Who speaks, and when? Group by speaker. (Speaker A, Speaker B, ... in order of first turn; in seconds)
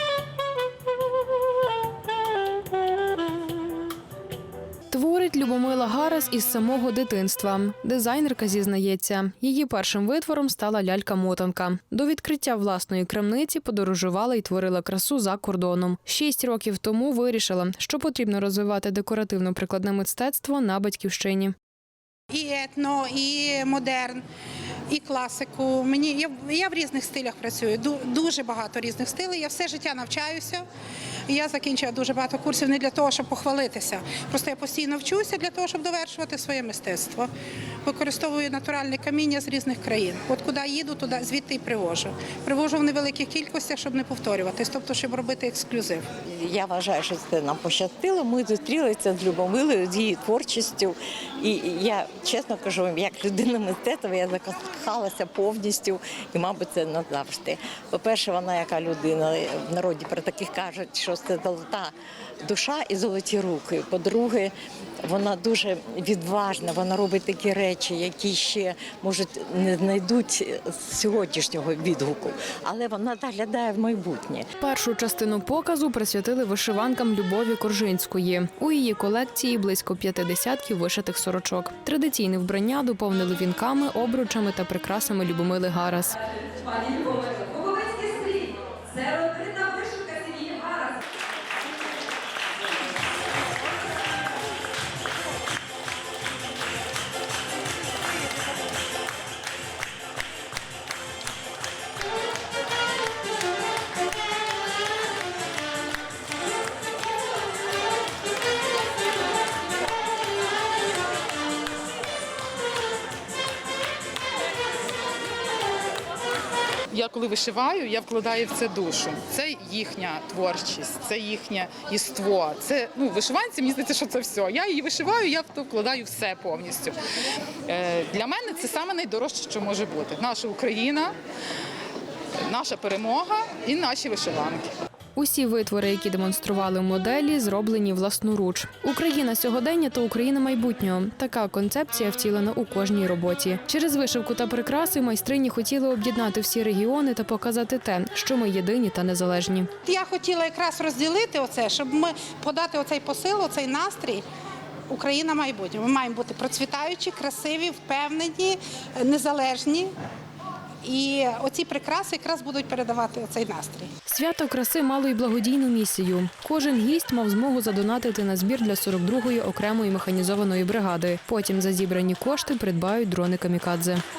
Speaker A: 4.9-21.5, 74.6-86.2, 135.2-149.7, 164.1-174.0
Speaker B: 22.3-24.2, 24.9-30.6, 31.3-37.3, 37.8-46.0, 149.8-154.2, 154.9-159.9, 160.8-163.9
Speaker C: 46.2-61.9, 62.4-74.4
Speaker D: 86.5-91.0
Speaker E: 116.9-127.0, 127.7-131.1, 132.5-134.7